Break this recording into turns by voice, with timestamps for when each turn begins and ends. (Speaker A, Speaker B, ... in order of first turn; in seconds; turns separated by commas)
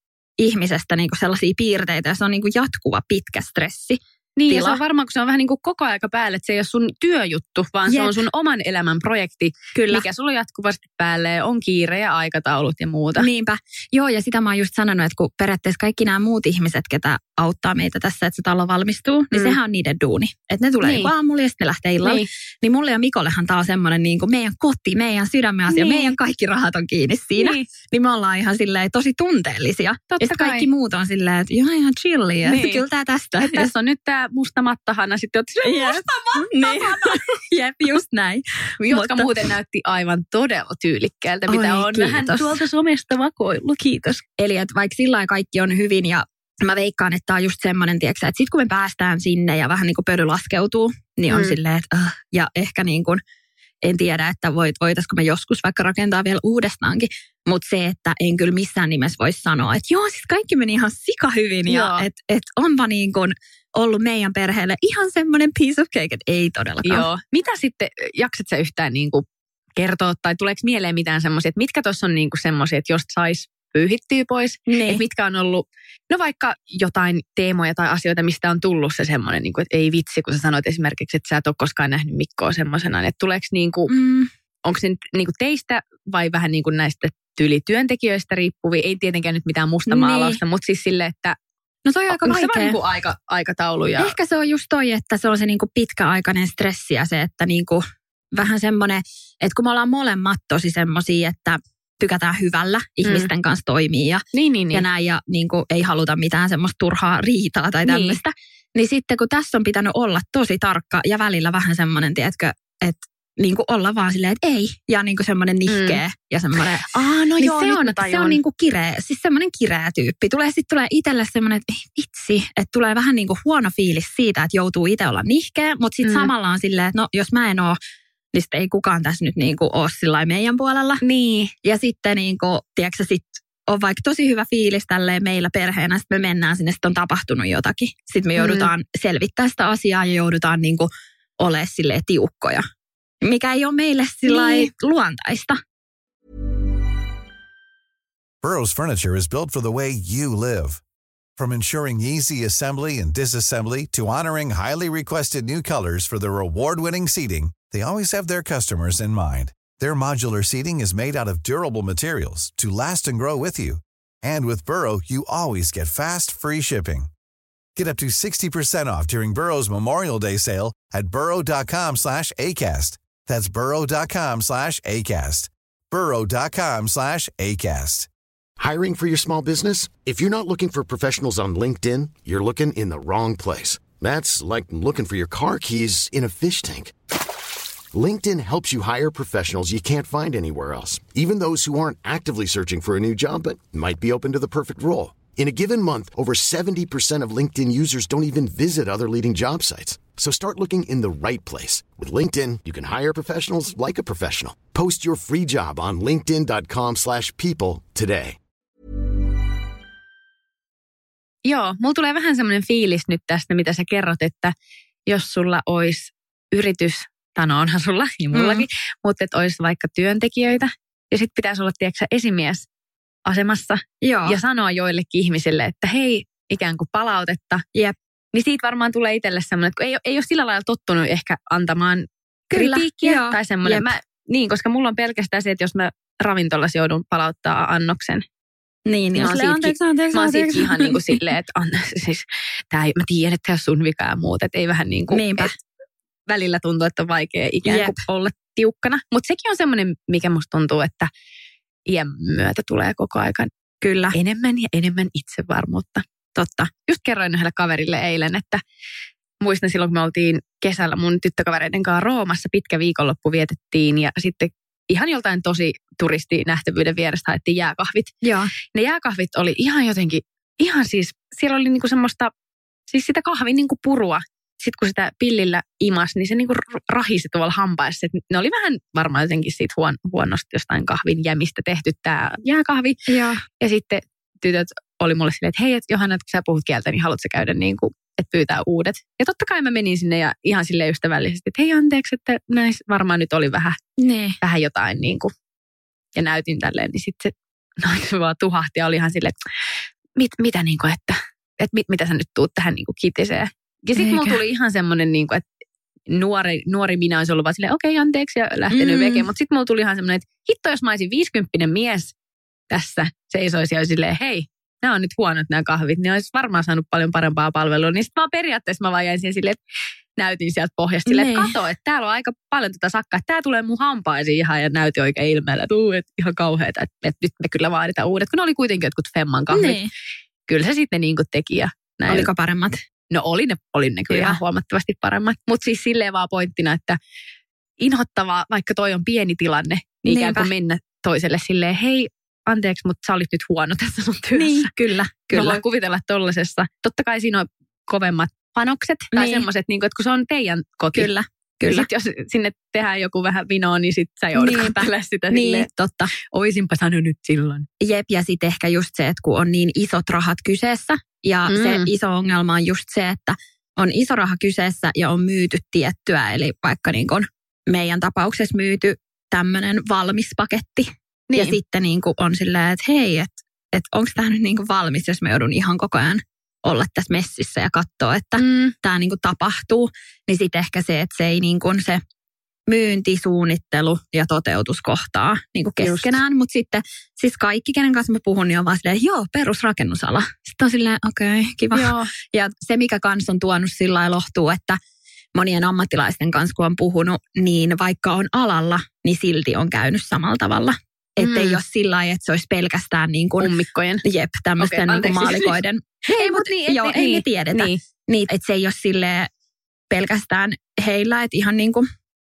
Speaker A: 0.4-4.8, Speaker B: 4.4-13.3, Speaker A: 7.9-8.2, Speaker A: 9.8-10.1, Speaker A: 13.2-33.7, Speaker B: 19.3-19.6, Speaker B: 20.8-21.1, Speaker B: 22.0-22.3, Speaker B: 25.7-26.1, Speaker B: 27.4-27.7, Speaker B: 30.1-30.7, Speaker B: 32.4-32.8, Speaker B: 33.4-37.2, Speaker A: 35.6-39.3, Speaker B: 38.8-44.2, Speaker A: 41.5-42.6, Speaker A: 44.4-53.2, Speaker B: 51.3-51.6, Speaker A: 53.8-67.1, Speaker B: 61.7-62.1, Speaker B: 66.8-69.2, Speaker B: 69.8-83.9, Speaker A: 74.7-75.0, Speaker A: 83.9-84.3, Speaker B: 84.6-91.4, Speaker A: 89.9-90.4, Speaker A: 91.8-92.8, Speaker B: 92.2-94.2, Speaker A: 94.0-127.8, Speaker B: 103.0-103.3, Speaker B: 104.3-104.9, Speaker B: 107.8-108.2, Speaker B: 115.7-116.0, Speaker B: 116.9-118.4, Speaker B: 126.0-126.3, Speaker A: 128.3-131.0, Speaker B: 131.0-131.5, Speaker A: 131.6-140.9, Speaker B: 138.4-138.7, Speaker A: 141.4-142.6, Speaker A: 143.2-145.6, Speaker B: 144.3-144.7, Speaker C: 148.4-150.8, Speaker C: 151.4-167.1, Speaker C: 167.8-178.1, Speaker D: 178.6-186.9, Speaker D: 187.9-208.4, Speaker B: 211.4-214.5, Speaker B: 215.1-222.7, Speaker A: 218.3-218.7, Speaker B: 223.3-227.6, Speaker A: 224.0-224.4, Speaker B: 228.3-238.2, Speaker A: 232.5-233.9, Speaker A: 238.9-241.2, Speaker B: 239.2-245.6, Speaker A: 245.1-245.5, Speaker B: 246.3-251.1, Speaker A: 247.7-248.0, Speaker B: 251.9-253.5, Speaker A: 253.8-254.2, Speaker B: 254.1-256.1, Speaker A: 256.4-256.7, Speaker B: 256.9-258.6, Speaker B: 259.4-268.1, Speaker A: 268.2-268.5, Speaker B: 268.7-272.3, Speaker B: 272.9-283.0, Speaker A: 283.1-283.4, Speaker B: 283.6-293.8, Speaker A: 294.0-294.4, Speaker B: 294.4-295.3, Speaker B: 296.1-299.4, Speaker B: 300.2-305.4, Speaker A: 304.0-304.4, Speaker B: 306.1-312.1, Speaker A: 308.7-309.3, Speaker B: 312.7-319.6, Speaker B: 320.2-329.8, Speaker A: 321.1-321.5, Speaker A: 329.5-329.9, Speaker B: 330.5-332.3, Speaker A: 332.1-332.8, Speaker B: 333.1-337.0, Speaker A: 334.1-334.4, Speaker B: 337.8-344.7, Speaker A: 340.1-340.5, Speaker A: 344.3-345.6, Speaker B: 345.3-351.1, Speaker A: 349.1-349.5, Speaker A: 350.9-351.9, Speaker B: 351.6-355.7, Speaker A: 354.4-356.1, Speaker B: 356.3-357.7, Speaker A: 357.8-382.0, Speaker B: 361.5-361.9, Speaker B: 371.3-371.6, Speaker B: 378.4-378.7, Speaker A: 382.7-394.8, Speaker B: 385.8-386.2, Speaker B: 391.7-392.1, Speaker A: 395.4-403.5, Speaker B: 401.2-401.6, Speaker B: 403.4-404.0, Speaker A: 404.0-409.3, Speaker B: 404.6-407.8, Speaker A: 409.9-411.9